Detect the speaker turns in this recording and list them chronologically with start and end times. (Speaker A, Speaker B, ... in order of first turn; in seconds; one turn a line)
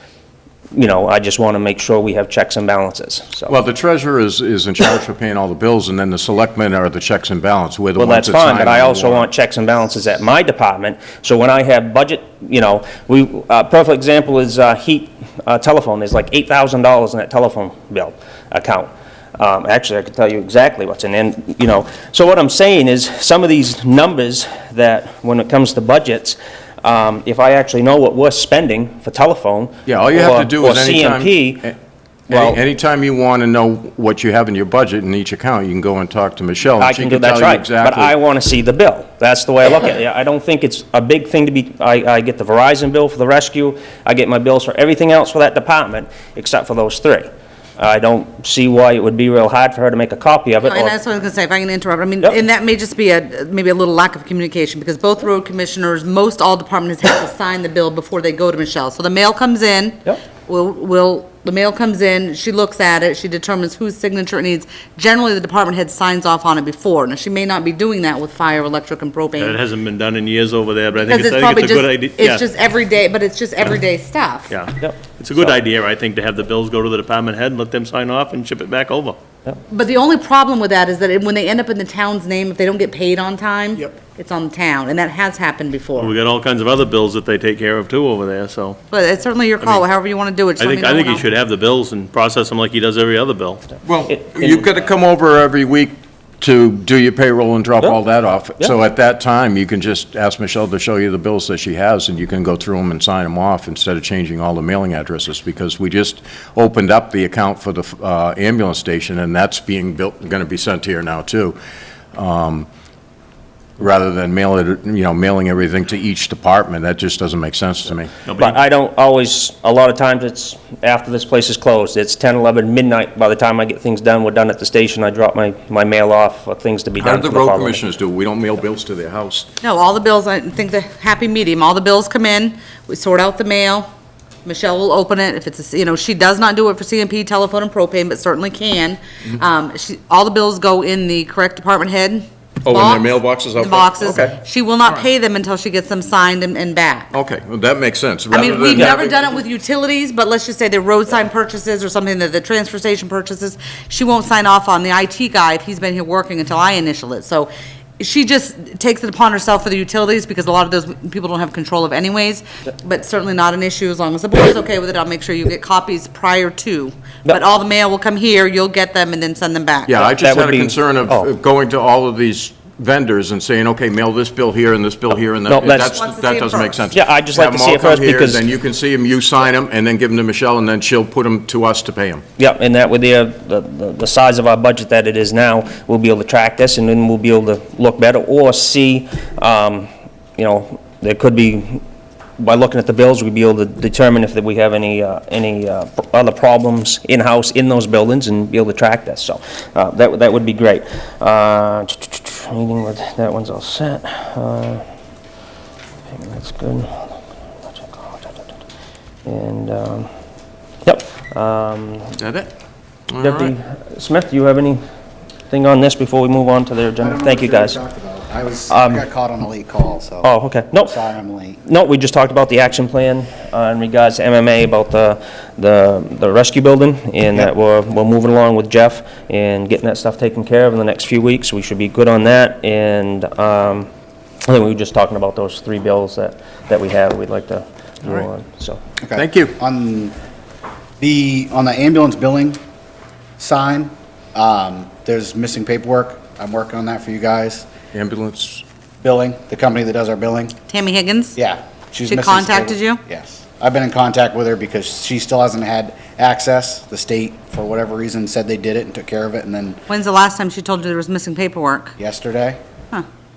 Speaker A: 0.7-3.5
Speaker B: 3.5-9.3
Speaker A: 8.0-31.7
Speaker B: 29.9-31.7
Speaker B: 32.3-38.1
Speaker A: 32.3-32.6
Speaker A: 36.8-47.2
Speaker A: 47.8-50.9
Speaker C: 50.6-69.6
Speaker D: 69.4-72.4
Speaker C: 71.1-74.5
Speaker D: 74.5-79.2
Speaker A: 74.8-75.5
Speaker C: 79.7-86.1
Speaker D: 86.0-88.8
Speaker C: 88.9-91.2
Speaker D: 90.6-93.6
Speaker B: 93.8-111.6
Speaker A: 94.1-94.7
Speaker B: 112.1-112.7
Speaker B: 113.8-118.1
Speaker D: 118.2-118.6
Speaker A: 118.4-127.8
Speaker B: 127.0-129.5
Speaker C: 129.6-133.9
Speaker C: 134.4-147.1
Speaker B: 142.6-145.0
Speaker B: 147.1-149.4
Speaker C: 148.3-170.1
Speaker B: 169.9-182.2
Speaker A: 170.2-171.3
Speaker A: 175.5-176.0
Speaker C: 175.8-176.8
Speaker A: 176.9-178.4
Speaker A: 182.4-191.8
Speaker A: 192.4-204.8
Speaker A: 206.1-208.4
Speaker A: 209.2-210.1
Speaker A: 210.8-212.1
Speaker B: 212.2-212.5
Speaker B: 213.1-213.5
Speaker A: 213.2-214.8
Speaker A: 215.5-217.8
Speaker E: 217.0-221.6
Speaker A: 218.7-219.1
Speaker A: 220.2-220.9
Speaker A: 221.6-233.9
Speaker A: 234.4-238.8
Speaker E: 239.0-240.1
Speaker B: 239.1-239.6
Speaker E: 241.0-242.6
Speaker E: 243.4-247.7
Speaker B: 247.9-248.6
Speaker E: 249.0-250.6
Speaker C: 250.7-251.3
Speaker E: 251.3-259.8
Speaker C: 252.1-253.0
Speaker C: 259.9-261.9
Speaker E: 262.0-262.6